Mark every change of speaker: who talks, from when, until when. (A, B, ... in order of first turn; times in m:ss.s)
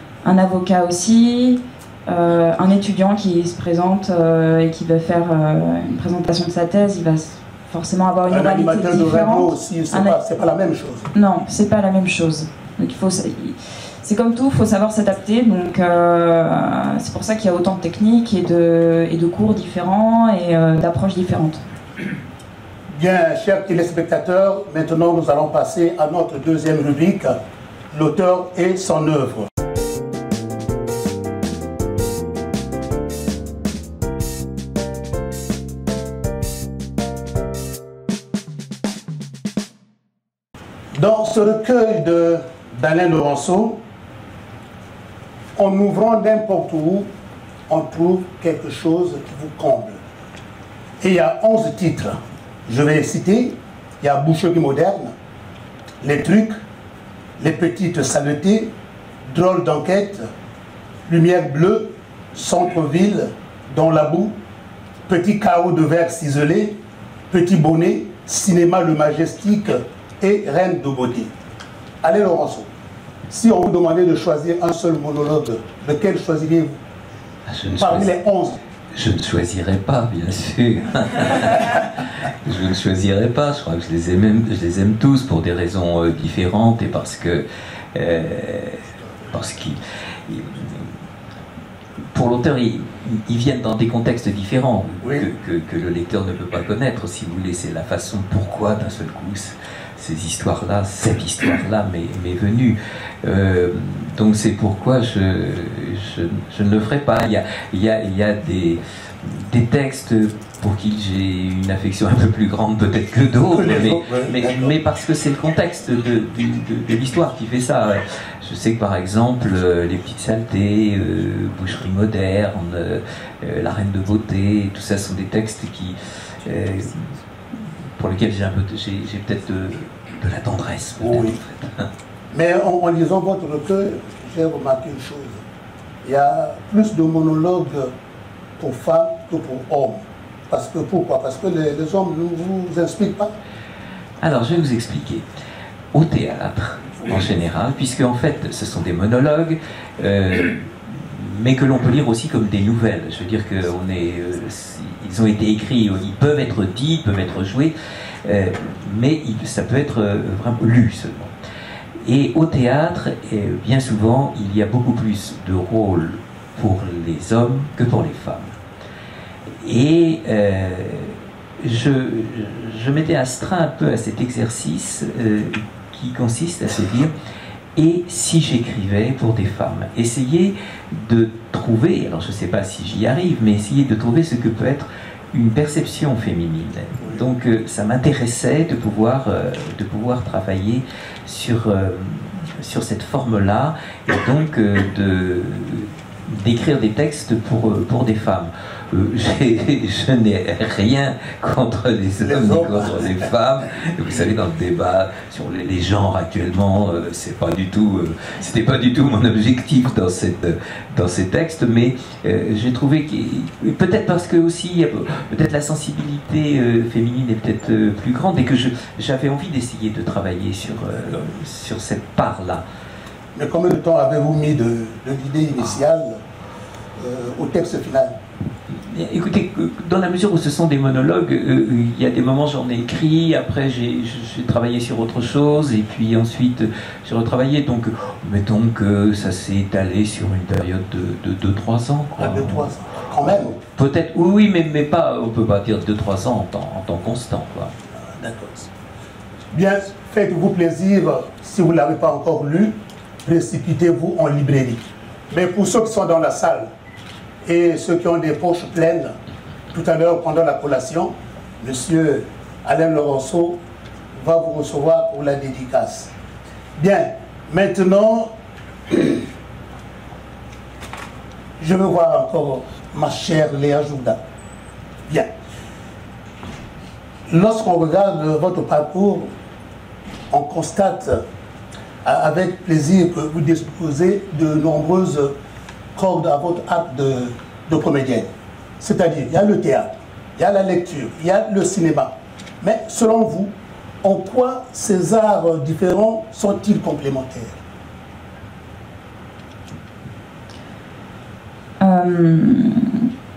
0:00.2-0:10.2 A
0:08.3-0:11.1 B
0:11.1-0:21.6 A
0:22.9-0:27.4 B
0:27.9-0:29.5 B
0:40.9-0:43.8 B
0:45.6-0:47.1 B
0:47.7-0:50.0 B
0:51.0-0:55.1 B
0:56.0-0:56.5 B
0:57.4-0:58.7 B
0:59.2-1:00.3 B
1:01.1-1:04.4 B
1:05.1-1:06.8 B
1:07.3-1:11.3 B
1:12.0-1:12.7 B
1:13.3-1:16.8 B
1:17.5-1:18.1 C
1:17.7-1:18.6 B
1:19.0-1:31.0 C
1:32.1-2:11.9 C
1:35.0-1:35.3 B
1:53.5-1:54.7 B
2:11.0-2:11.4 B
2:12.3-2:15.4 B
2:16.0-2:17.9 B
2:18.6-2:23.4 B
2:24.2-2:25.2 C
2:25.9-2:41.3 C
2:42.0-2:48.6 C
2:49.6-2:57.1 C
2:57.8-3:42.6 C
3:22.2-3:23.1 B
3:43.4-3:46.2 B
3:47.0-3:48.2 B
3:48.7-4:07.7 C
4:02.2-4:03.6 B
4:08.0-4:08.7 B
4:09.5-4:16.7 B
4:17.4-4:19.2 B
4:19.7-4:23.6 B
4:24.1-4:26.1 B
4:26.8-4:28.3 B
4:28.9-4:29.3 B
4:31.6-4:34.2 B
4:37.3-4:39.3 B
4:40.3-4:41.2 B
4:42.0-4:45.4 B
4:46.0-4:48.3 B
4:48.8-4:57.6 B
5:01.8-5:03.1 A